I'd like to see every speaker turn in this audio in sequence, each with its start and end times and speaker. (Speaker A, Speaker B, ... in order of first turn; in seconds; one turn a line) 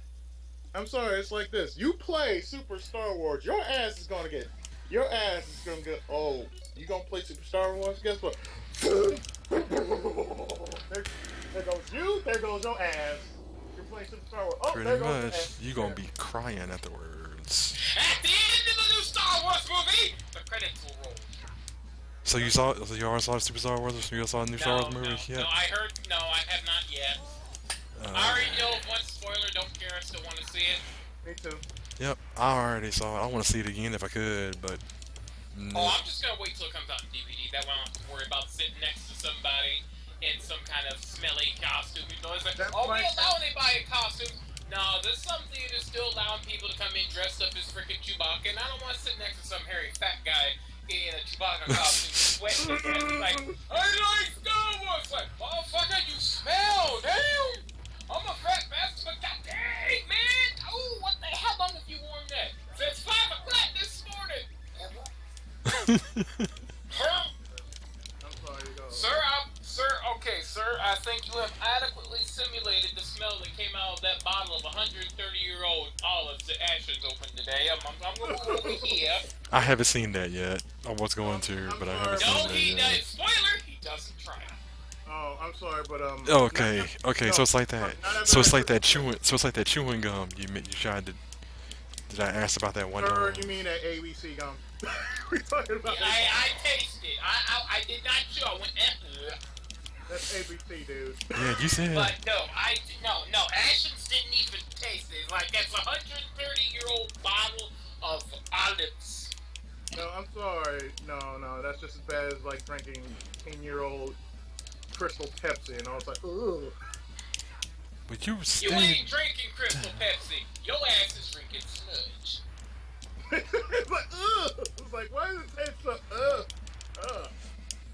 Speaker A: 0.7-16.0
Speaker B: 14.7-17.8
Speaker C: 17.8-21.3
Speaker B: 22.2-25.5
Speaker C: 24.6-27.2
Speaker B: 27.9-28.8
Speaker C: 28.1-30.8
Speaker A: 31.2-31.6
Speaker B: 32.0-34.8
Speaker B: 35.5-36.0
Speaker C: 35.7-65.1
Speaker A: 42.6-43.4
Speaker B: 51.7-52.5
Speaker A: 52.6-53.6
Speaker B: 65.7-66.5
Speaker C: 66.9-67.3
Speaker A: 66.9-67.7
Speaker A: 68.2-69.2
Speaker C: 68.9-79.3
Speaker A: 78.2-79.0
Speaker B: 79.5-83.0
Speaker A: 81.2-82.6
Speaker C: 82.2-84.6
Speaker A: 85.1-89.1
Speaker B: 86.2-91.2
Speaker B: 92.1-93.5
Speaker A: 93.0-96.4
Speaker C: 95.8-99.4
Speaker A: 100.1-101.4
Speaker B: 101.3-102.2
Speaker C: 101.9-109.3
Speaker A: 109.9-114.2
Speaker A: 114.9-116.8
Speaker B: 118.1-119.1
Speaker C: 118.6-122.4
Speaker B: 119.7-120.1
Speaker A: 123.3-127.3